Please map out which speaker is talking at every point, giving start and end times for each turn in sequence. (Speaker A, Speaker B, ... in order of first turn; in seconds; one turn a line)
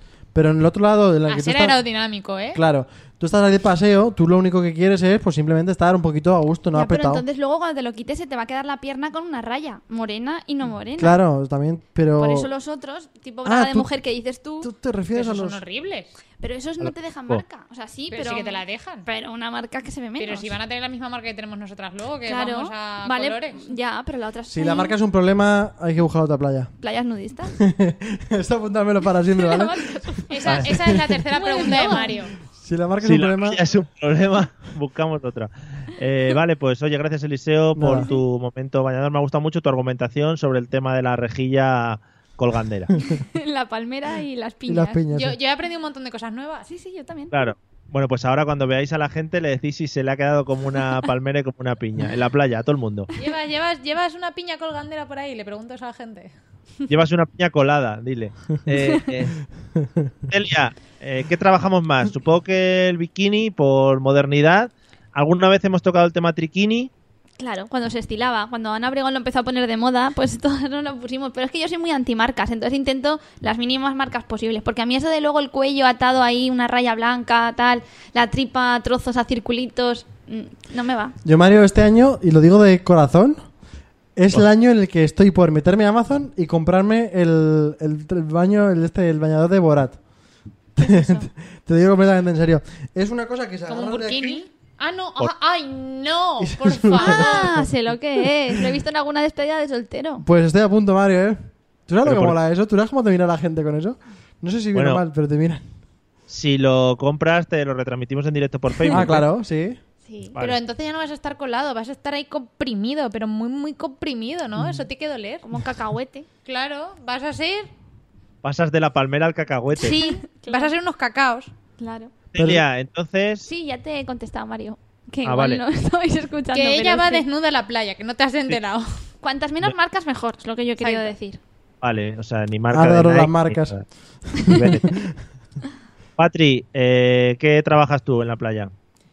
Speaker A: 0.3-1.8
Speaker B: 1.3-2.6
Speaker A: 2.5-7.2
Speaker C: 6.7-11.2
Speaker A: 11.0-12.5
Speaker C: 12.2-14.7
Speaker A: 13.4-13.9
Speaker A: 14.6-15.6
Speaker B: 15.1-16.2
Speaker C: 16.4-20.5
Speaker D: 16.8-17.4
Speaker B: 18.1-19.1
Speaker B: 20.2-23.7
Speaker C: 22.2-24.9
Speaker A: 24.5-26.7
Speaker C: 26.8-27.5
Speaker A: 27.6-29.9
Speaker C: 29.4-30.6
Speaker B: 30.3-32.3
Speaker D: 30.5-30.7
Speaker A: 30.7-31.2
Speaker C: 31.3-32.2
Speaker A: 31.9-33.6
Speaker D: 33.0-42.9
Speaker A: 37.7-38.1
Speaker C: 43.1-45.0
Speaker A: 44.7-45.4
Speaker B: 45.1-46.7
Speaker C: 46.6-47.3
Speaker D: 47.3-53.1
Speaker B: 53.2-56.3
Speaker D: 56.9-59.4
Speaker A: 59.8-60.1
Speaker D: 60.3-66.9
Speaker C: 67.4-81.2
Speaker A: 81.2-83.5
Speaker A: 84.2-90.0
Speaker C: 90.8-91.3
Speaker A: 90.8-94.4
Speaker B: 93.7-97.5
Speaker A: 96.4-97.7
Speaker C: 97.0-100.2
Speaker A: 100.2-105.6
Speaker D: 102.0-102.3
Speaker D: 104.7-105.0
Speaker D: 106.3-109.2
Speaker A: 108.9-109.8
Speaker C: 110.0-110.3
Speaker D: 110.3-110.6
Speaker B: 110.4-115.4
Speaker C: 115.4-116.2
Speaker B: 116.5-117.7
Speaker D: 118.4-120.0
Speaker C: 119.8-120.7
Speaker B: 119.9-121.5
Speaker C: 121.8-122.1
Speaker D: 122.3-123.5
Speaker A: 122.3-122.6
Speaker C: 123.5-127.2
Speaker D: 125.2-125.6
Speaker B: 126.5-128.9
Speaker C: 129.2-131.4
Speaker B: 130.8-131.1
Speaker D: 131.8-133.8
Speaker A: 132.7-133.8
Speaker A: 134.3-135.1
Speaker D: 134.5-134.9
Speaker D: 136.2-138.7